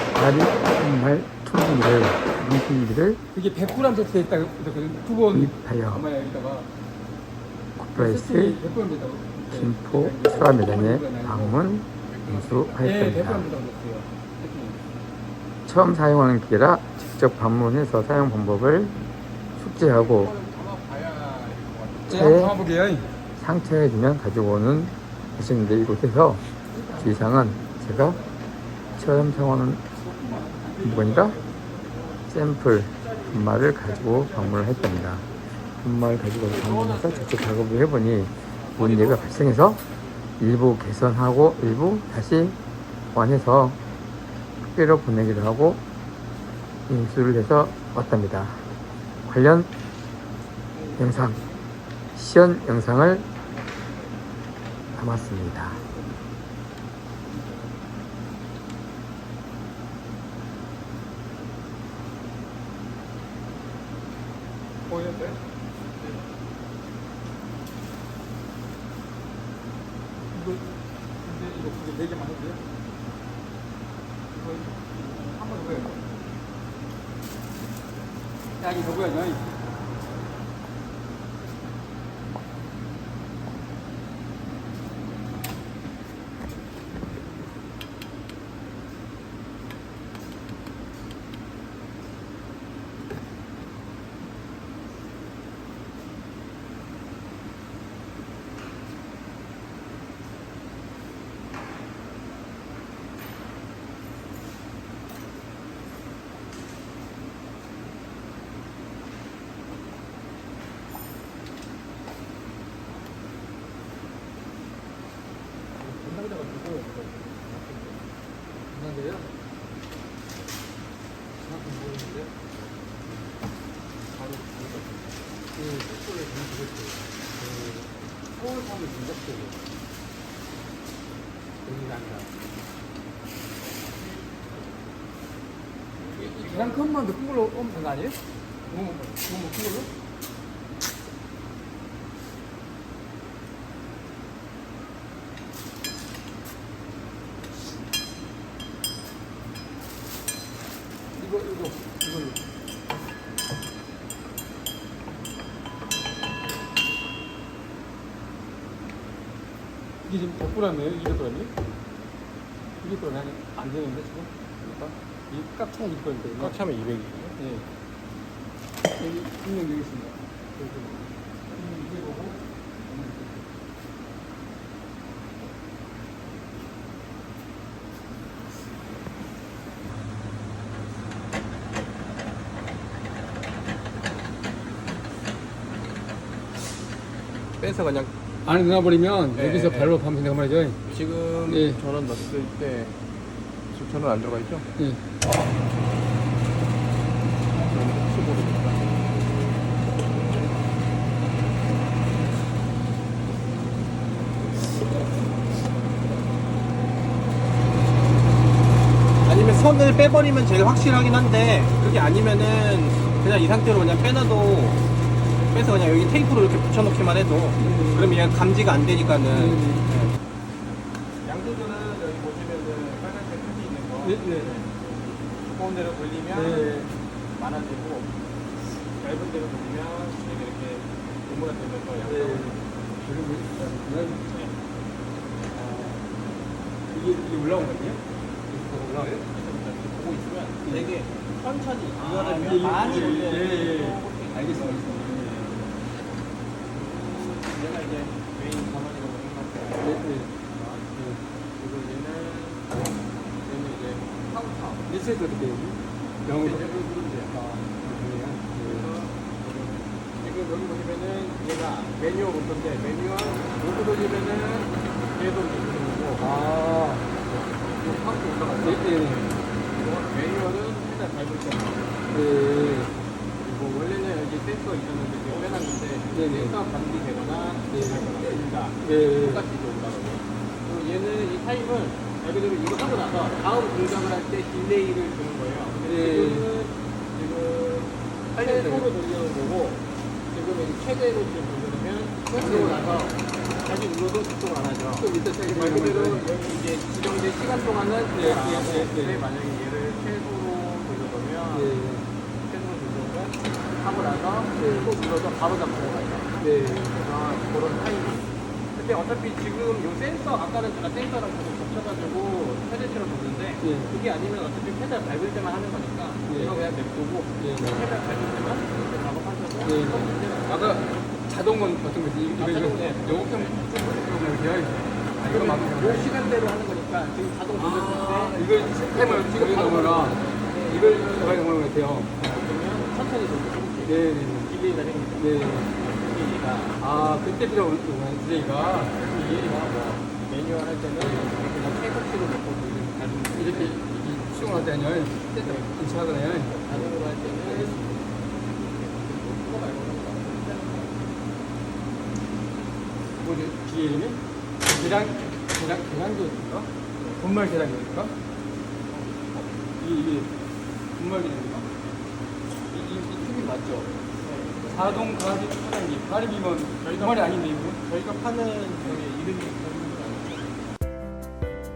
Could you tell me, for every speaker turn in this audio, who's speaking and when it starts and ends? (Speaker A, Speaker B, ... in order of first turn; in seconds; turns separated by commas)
Speaker A: 0.1-3.2, Speaker B: 3.3-6.7, Speaker A: 5.3-6.1, Speaker A: 7.8-8.6, Speaker B: 8.0-11.6, Speaker A: 9.5-13.5, Speaker C: 12.0-13.0, Speaker B: 12.8-14.8, Speaker A: 15.7-19.0, Speaker A: 19.6-20.4, Speaker C: 19.8-22.4, Speaker B: 22.1-23.1, Speaker A: 22.1-22.6, Speaker A: 23.4-28.2, Speaker B: 26.7-28.3, Speaker B: 28.9-32.0, Speaker A: 28.9-29.9, Speaker A: 30.8-31.4, Speaker A: 32.3-39.8, Speaker C: 33.0-35.1, Speaker C: 36.4-37.6, Speaker C: 38.5-40.2, Speaker A: 40.4-42.6, Speaker A: 43.1-43.8, Speaker A: 44.6-45.8, Speaker A: 46.9-48.6, Speaker A: 49.2-49.7, Speaker B: 50.9-51.4, Speaker A: 51.0-51.4, Speaker A: 52.2-53.3, Speaker A: 55.0-55.8, Speaker B: 64.9-65.4, Speaker B: 70.3-70.7, Speaker B: 71.2-72.6, Speaker B: 74.3-76.1, Speaker B: 78.6-79.5, Speaker C: 115.9-118.0, Speaker B: 118.7-119.3, Speaker B: 121.4-122.4, Speaker C: 124.1-125.2, Speaker B: 125.5-129.7, Speaker B: 131.7-132.3, Speaker C: 134.0-134.6, Speaker C: 136.0-136.9, Speaker B: 136.0-139.9, Speaker B: 151.2-152.4, Speaker B: 160.1-161.5, Speaker B: 162.8-166.6, Speaker C: 166.4-167.4, Speaker B: 167.4-167.7, Speaker B: 168.9-171.0, Speaker B: 171.5-173.5, Speaker C: 187.6-188.1, Speaker B: 188.4-190.8, Speaker C: 189.4-189.9, Speaker C: 190.9-192.9, Speaker B: 191.5-191.8, Speaker C: 193.7-194.7, Speaker C: 197.7-198.8, Speaker C: 209.2-214.8, Speaker C: 215.5-220.1, Speaker B: 217.6-218.2, Speaker B: 219.3-219.9, Speaker C: 221.2-226.8, Speaker B: 224.0-224.6, Speaker B: 226.3-226.9, Speaker C: 227.3-228.2, Speaker C: 229.0-232.6, Speaker B: 232.0-234.2, Speaker C: 234.3-234.5, Speaker B: 235.5-236.0, Speaker B: 236.9-239.2, Speaker C: 239.1-245.1, Speaker B: 240.6-240.9, Speaker B: 241.9-245.7, Speaker C: 246.7-250.9, Speaker B: 249.8-250.3, Speaker B: 250.9-251.2, Speaker C: 251.6-252.9, Speaker C: 253.4-254.9, Speaker B: 254.9-256.7, Speaker C: 256.3-257.4, Speaker B: 257.3-258.9, Speaker C: 258.5-266.3, Speaker B: 266.2-267.2, Speaker C: 267.2-272.0, Speaker B: 268.3-269.3, Speaker B: 272.1-272.9, Speaker C: 273.4-301.8, Speaker B: 276.1-276.6, Speaker B: 277.7-279.4, Speaker B: 285.8-286.5, Speaker B: 288.3-288.9, Speaker B: 292.4-292.9, Speaker B: 295.0-296.3, Speaker B: 298.1-299.2, Speaker B: 301.5-302.1, Speaker C: 302.4-306.3, Speaker B: 304.6-304.9, Speaker B: 306.4-306.9, Speaker C: 306.9-321.1, Speaker B: 313.6-313.9, Speaker B: 316.3-316.7, Speaker B: 317.4-317.9, Speaker B: 319.6-326.2, Speaker C: 322.3-324.1, Speaker C: 325.2-331.5, Speaker B: 327.6-332.1, Speaker C: 332.2-337.1, Speaker B: 333.9-334.5, Speaker B: 335.2-335.7, Speaker B: 336.8-339.5, Speaker C: 338.6-344.7, Speaker B: 341.0-341.4, Speaker B: 343.3-348.0, Speaker C: 345.4-345.8, Speaker C: 346.4-351.2, Speaker B: 353.2-358.1, Speaker C: 354.7-355.2, Speaker C: 358.9-359.7, Speaker B: 359.8-360.3, Speaker B: 361.0-361.7, Speaker B: 362.7-363.9, Speaker C: 364.2-365.0, Speaker B: 364.7-367.8, Speaker C: 366.8-370.7